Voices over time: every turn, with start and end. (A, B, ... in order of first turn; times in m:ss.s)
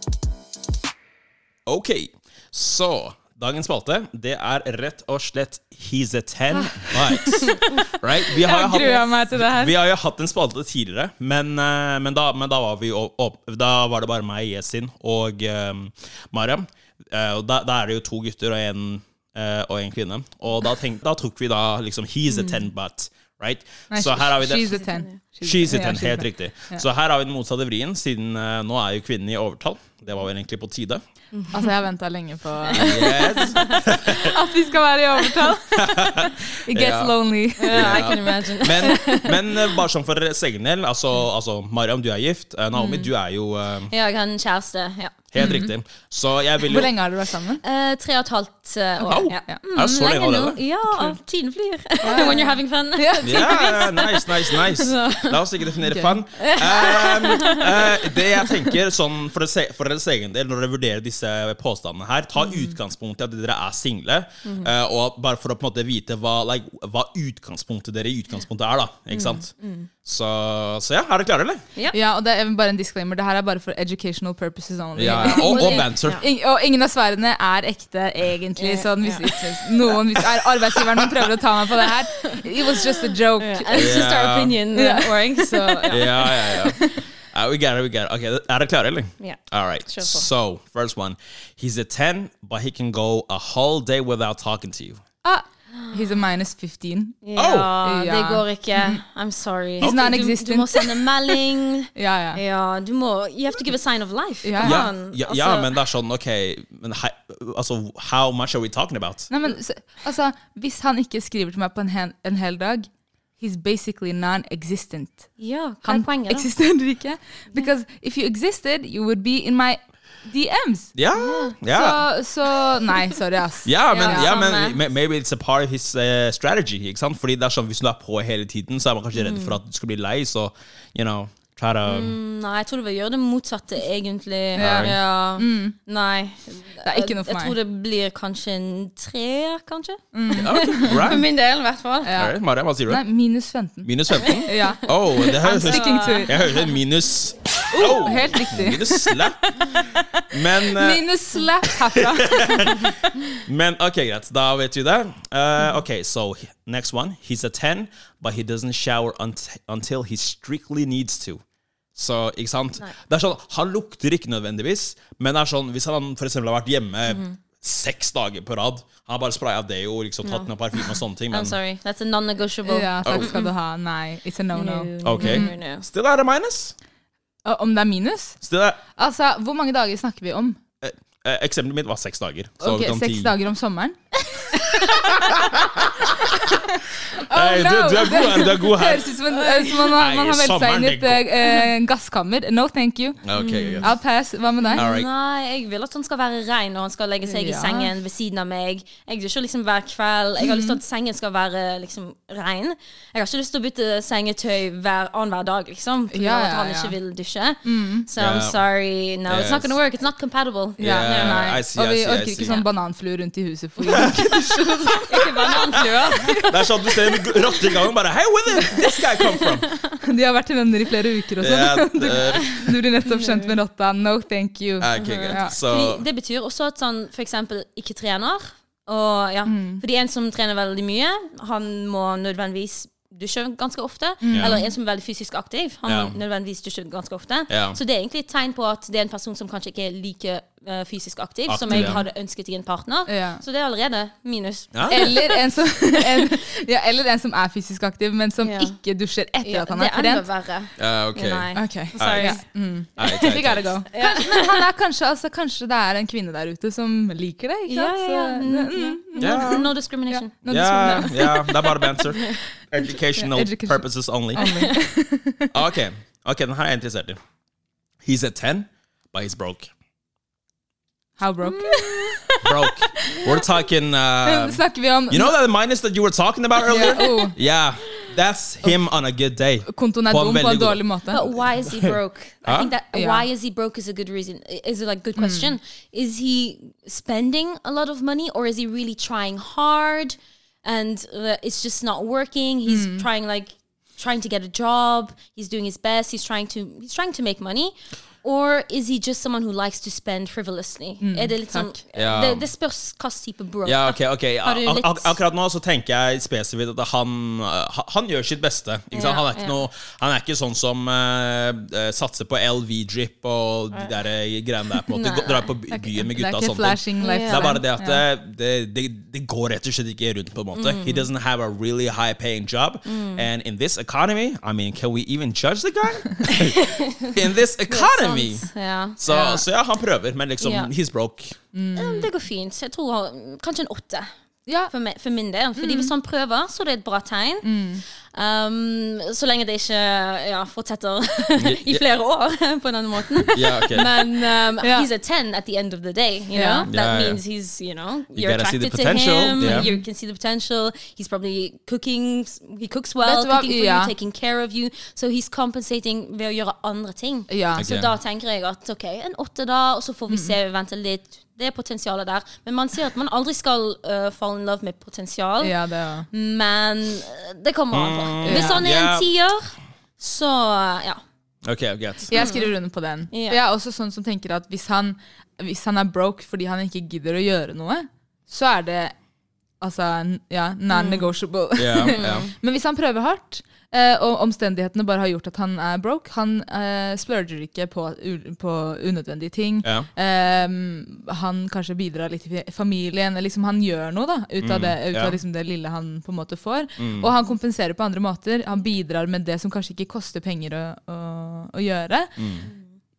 0:01.7-0:24.8 A
0:06.6-0:07.7 B
0:07.3-0:07.9 C
0:08.3-0:09.8 B
0:23.9-0:26.8 B
0:25.4-0:31.0 A
0:31.3-0:31.8 C
0:31.5-0:33.6 B
0:32.6-0:34.4 C
0:32.7-0:34.4 A
0:34.2-0:38.2 B
0:35.7-0:37.2 A
0:37.6-0:39.7 C
0:37.7-0:43.9 A
0:42.7-0:43.1 C
0:43.9-0:45.5 C
0:45.3-0:46.9 A
0:45.4-0:45.7 B
0:46.7-0:47.6 B
0:47.6-0:55.4 C
0:49.0-0:49.6 B
0:49.1-0:51.2 A
0:52.0-0:54.1 B
0:53.2-1:09.5 A
0:55.8-0:56.2 B
0:56.4-0:58.3 C
1:04.4-1:04.7 C
1:09.1-1:09.9 C
1:10.0-1:11.6 A
1:11.9-1:24.0 B
1:15.0-1:16.2 A
1:15.1-1:16.3 C
1:18.6-1:20.0 C
1:20.8-1:21.1 A
1:22.2-1:26.6 C
1:23.8-1:24.6 A
1:24.7-1:26.9 B
1:25.9-1:35.0 A
1:29.2-1:30.3 C
1:35.2-1:37.2 B
1:35.7-1:36.1 C
1:37.2-1:45.7 C
1:37.4-1:37.7 A
1:37.8-1:39.0 B
1:39.8-1:41.4 B
1:42.0-1:42.4 B
1:44.4-1:44.9 B
1:44.6-1:49.3 A
1:49.3-2:00.9 B
1:55.4-1:56.5 C
2:01.0-2:02.0 A
2:01.1-2:01.6 C
2:01.6-2:04.3 B
2:03.6-2:12.2 A
2:03.9-2:04.8 C
2:09.1-2:09.6 C
2:11.8-2:22.1 C
2:14.6-2:15.0 A
2:14.6-2:15.8 B
2:16.8-2:17.6 B
2:20.1-2:21.2 B
2:20.4-2:21.2 A
2:22.0-2:23.9 B
2:22.2-2:23.0 A
2:23.8-2:29.6 A
2:24.2-2:26.7 C
2:24.4-2:26.4 B
2:27.7-2:32.9 B
2:30.3-2:31.1 A
2:31.6-2:41.4 A
2:42.0-2:51.6 A
2:47.1-2:47.4 C
2:50.2-2:53.5 C
2:52.7-2:55.5 B
2:53.0-2:53.4 A
2:54.5-2:55.9 C
2:55.0-2:56.8 A
2:57.4-2:58.4 B
2:58.4-2:58.8 A
2:59.0-3:00.6 B
3:00.8-3:03.3 A
3:02.6-3:04.8 B
3:04.6-3:05.0 C
3:04.9-3:06.6 A
3:06.5-3:13.2 B
3:07.1-3:09.1 A
3:09.3-3:09.9 C
3:09.9-3:11.3 A
3:13.2-3:13.9 A
3:13.4-3:13.9 C
3:13.8-3:14.9 B
3:14.6-3:31.5 C
3:14.8-3:15.1 A
3:17.3-3:17.9 B
3:20.4-3:20.8 B
3:26.1-3:27.0 B
3:27.6-3:28.1 B
3:28.2-3:28.6 A
3:29.3-3:29.8 A
3:30.8-3:32.6 A
3:30.8-3:35.3 B
3:33.9-3:35.1 A
3:35.0-3:36.5 C
3:36.2-3:37.2 B
3:36.3-3:39.7 A
3:39.0-3:40.0 C
3:40.0-3:45.6 B
3:41.4-3:42.6 A
3:43.0-3:43.6 C
3:44.8-3:46.0 A
3:45.0-4:05.4 C
3:49.4-3:49.8 B
3:54.2-3:54.7 B
3:54.3-3:54.6 A
3:55.9-3:56.2 A
3:57.5-3:57.8 A
4:01.5-4:02.0 A
4:01.7-4:02.0 B
4:03.1-4:03.4 B
4:04.7-4:05.0 A
4:04.9-4:10.2 B
4:08.4-4:08.8 C
4:09.4-4:12.4 C
4:10.8-4:12.4 A
4:11.6-4:22.3 B
4:13.0-4:13.8 A
4:13.9-4:14.6 C
4:17.7-4:20.3 C
4:19.2-4:19.7 A
4:20.4-4:24.5 A
4:20.8-4:21.3 C
4:22.1-4:22.4 C
4:23.2-4:25.5 B
4:24.4-4:24.7 C
4:25.5-4:27.2 A
4:28.0-4:29.7 A
4:31.2-4:33.4 B
4:31.4-4:32.2 C
4:32.4-4:40.8 A
4:34.2-4:35.4 B
4:36.7-4:37.4 B
4:39.7-4:41.2 B
4:41.1-5:05.1 C
4:41.4-4:42.7 A
4:42.9-4:43.3 B
4:45.2-4:45.6 B
4:52.7-4:53.1 B
5:01.0-5:01.8 B
5:02.0-5:02.5 A
5:03.6-5:31.4 A
5:08.9-5:09.6 C
5:14.9-5:15.5 C
5:15.7-5:18.0 B
5:17.0-5:17.6 C
5:20.5-5:21.0 C
5:22.9-5:23.3 C
5:26.2-5:29.0 C
5:29.1-5:29.4 B
5:30.4-5:30.7 C
5:31.5-5:32.1 B
5:31.8-5:34.2 C
5:34.5-5:34.7 B
5:34.7-5:37.6 C
5:35.6-5:35.9 B
5:37.4-5:37.8 B
5:38.1-6:05.6 C
5:41.4-5:41.8 A
5:43.3-5:43.6 B
5:43.3-5:43.9 A
5:44.6-5:44.9 B
5:46.3-5:46.7 B
5:46.7-5:47.2 A
5:48.1-5:49.7 A
5:49.4-5:49.8 B
5:53.0-5:53.9 B
5:57.3-5:57.6 B
5:57.6-5:57.9 A
6:00.1-6:00.4 B
6:05.4-6:06.1 B
6:06.1-6:11.0 C
6:07.7-6:09.1 A
6:08.2-6:08.7 B
6:11.4-6:12.3 A
6:12.1-6:19.0 B
6:12.1-6:12.5 C
6:13.1-6:13.4 C
6:19.6-6:42.2 B
6:20.7-6:21.1 C
6:21.6-6:22.3 A
6:21.8-6:22.3 C
6:29.6-6:29.9 A
6:34.4-6:35.2 A
6:36.8-6:37.1 A
6:42.2-6:42.5 A